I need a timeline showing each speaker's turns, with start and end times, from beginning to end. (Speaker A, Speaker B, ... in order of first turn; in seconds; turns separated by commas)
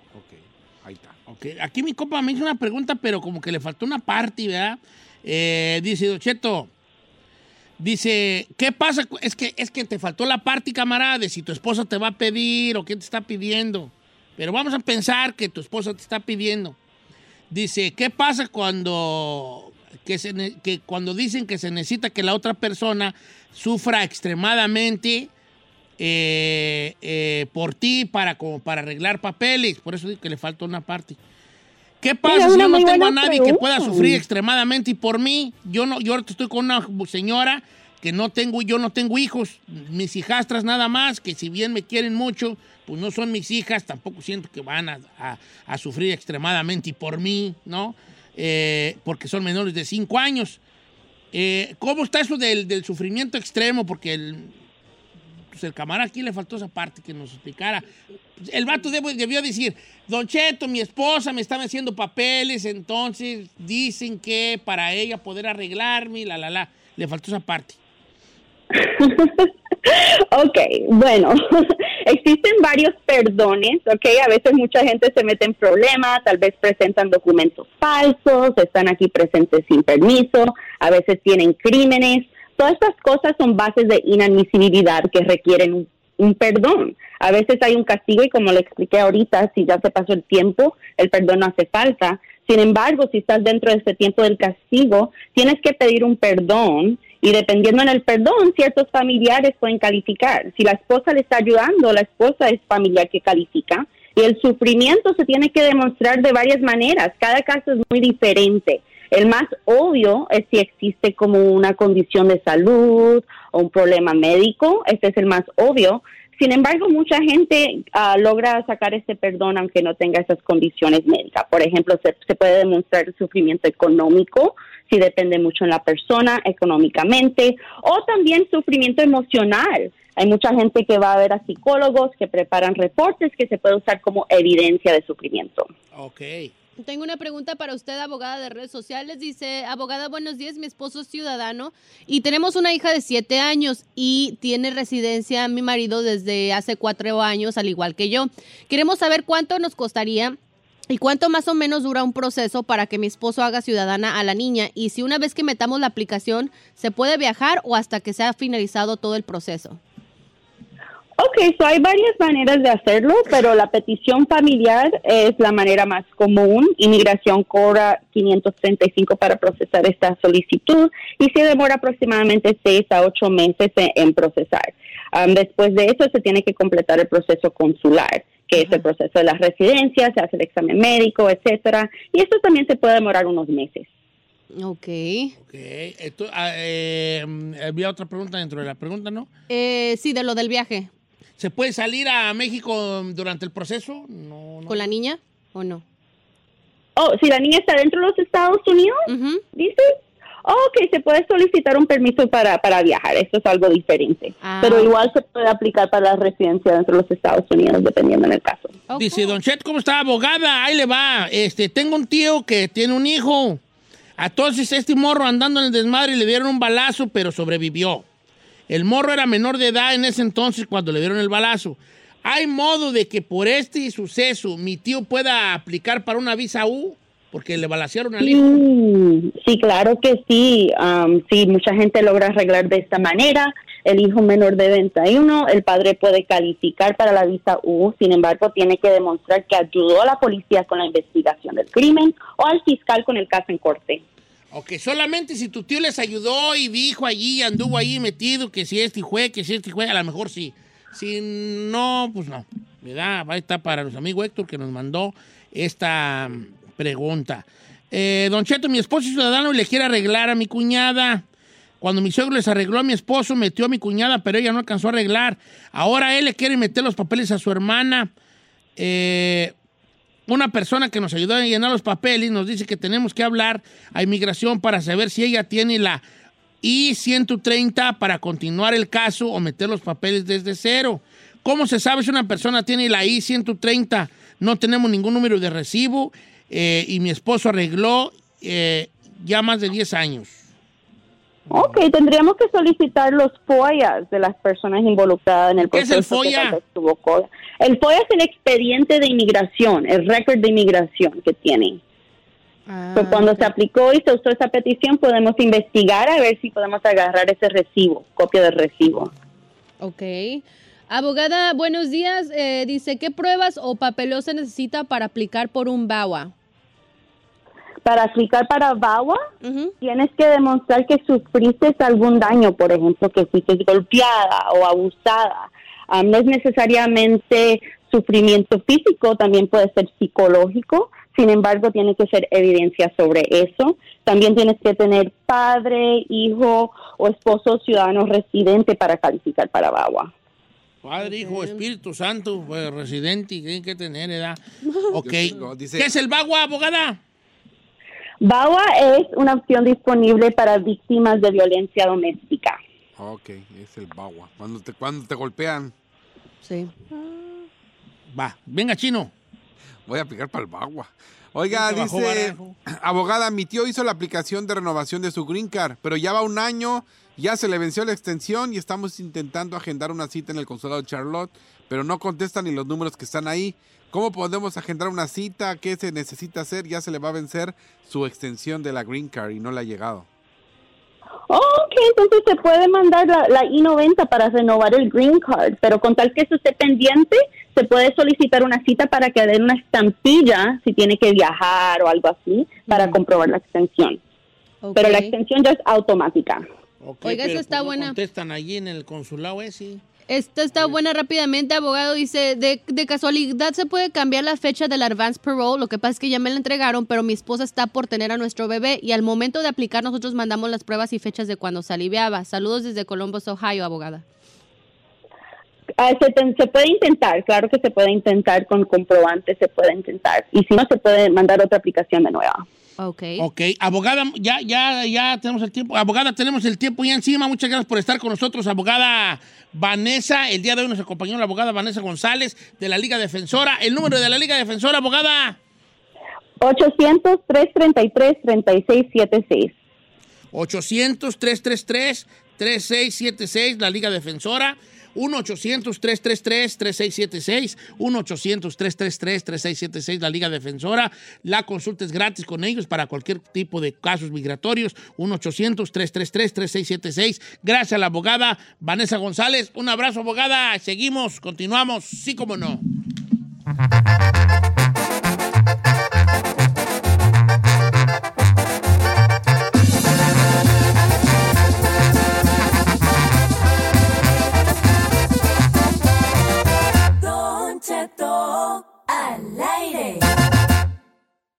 Speaker A: 0.1-1.2, Speaker B: 1.3-6.7, Speaker B: 7.8-16.8, Speaker B: 17.5-25.3, Speaker B: 26.0-31.2, Speaker B: 32.0-50.6, Speaker C: 32.2-34.2, Speaker B: 51.3-54.5, Speaker B: 55.5-57.9, Speaker B: 58.4-67.8, Speaker C: 68.7-135.7, Speaker B: 135.9-136.5, Speaker D: 136.8-150.4, Speaker D: 150.9-159.8, Speaker C: 161.2-183.9, Speaker D: 178.5-178.8, Speaker D: 184.5-185.3, Speaker B: 185.4-189.3, Speaker D: 189.5-190.9, Speaker B: 191.4-194.9, Speaker D: 194.7-195.8, Speaker C: 196.9-208.8, Speaker D: 199.1-199.4, Speaker D: 204.4-204.9, Speaker D: 208.9-209.3, Speaker B: 209.0-213.6, Speaker B: 214.2-218.1, Speaker B: 218.7-228.6, Speaker C: 228.2-244.0, Speaker B: 244.5-261.2, Speaker B: 261.8-268.1, Speaker B: 268.8-269.5, Speaker B: 270.3-276.0, Speaker B: 276.6-290.4, Speaker C: 291.5-301.8, Speaker B: 295.6-296.6, Speaker D: 302.7-303.5, Speaker C: 302.9-309.1, Speaker D: 309.8-316.3, Speaker C: 317.8-319.2, Speaker D: 319.4-319.7, Speaker C: 319.8-340.1, Speaker B: 340.8-347.0, Speaker D: 341.0-341.6, Speaker A: 345.0-345.9, Speaker C: 348.2-352.6, Speaker A: 353.0-355.7, Speaker D: 356.4-356.7, Speaker A: 356.9-357.4, Speaker B: 358.1-359.1, Speaker A: 359.9-380.1, Speaker B: 361.5-362.6, Speaker C: 381.3-394.0, Speaker D: 392.7-393.0, Speaker D: 394.6-395.1, Speaker C: 394.7-396.5, Speaker B: 396.8-399.8, Speaker D: 397.0-397.9, Speaker D: 400.1-414.0, Speaker C: 415.8-422.4, Speaker D: 422.8-423.2, Speaker B: 423.2-435.4, Speaker C: 436.4-439.5, Speaker B: 440.3-462.6, Speaker E: 477.0-480.1